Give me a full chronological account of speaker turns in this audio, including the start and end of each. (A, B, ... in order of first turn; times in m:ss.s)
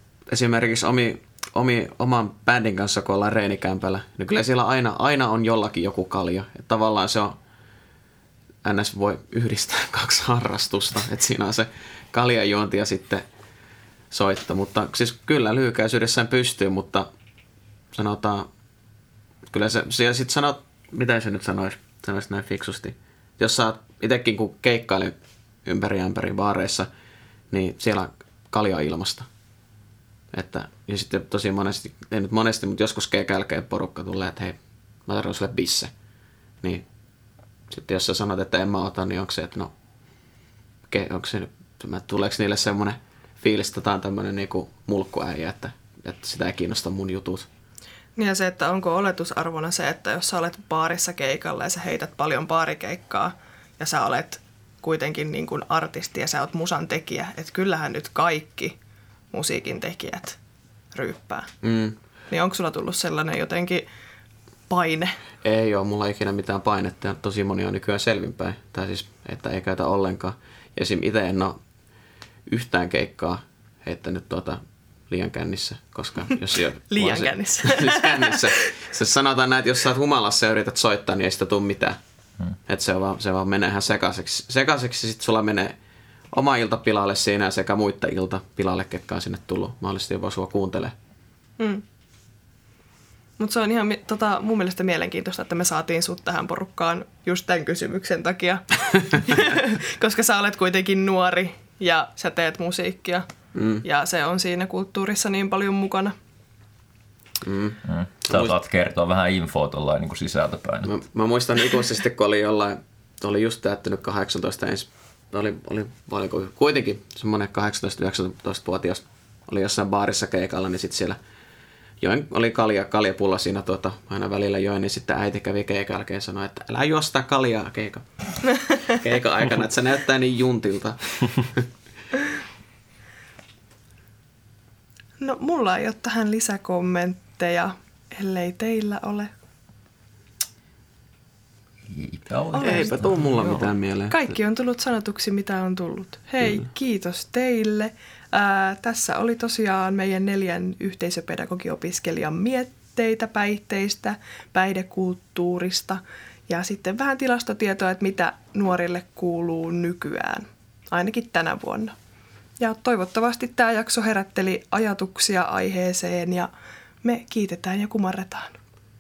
0:00.3-0:07.4 A
0:08.6-0:13.2 A
0:14.1-0:17.1 A
0:17.9-0:18.5 A
0:19.5-0:26.9 A
0:27.5-0:29.3 A
0:30.3-0:35.9 A
0:37.7-0:39.7 A
0:40.9-0:47.5 A
0:48.2-0:58.8 B
0:59.3-1:00.4 B
1:00.9-1:01.5 B
1:01.6-1:02.0 A
1:02.3-1:03.9 B
1:04.7-1:05.1 B
1:05.4-1:11.6 A
1:12.5-1:22.0 A
1:16.9-1:18.6 B
1:22.7-1:25.8 A
1:26.3-1:31.0 A
1:31.6-1:31.8 B
1:33.4-1:43.3 B
1:43.5-1:43.8 A
1:43.8-1:46.2 B
1:47.4-1:48.5 A
1:47.9-1:51.0 C
1:50.8-2:01.2 A
2:02.0-2:08.1 A
2:08.8-2:11.7 A
2:15.2-2:19.3 B
2:21.9-2:23.2 C
2:22.6-2:42.0 B
2:22.6-2:24.2 A
2:42.6-2:46.5 B
2:47.0-2:48.6 B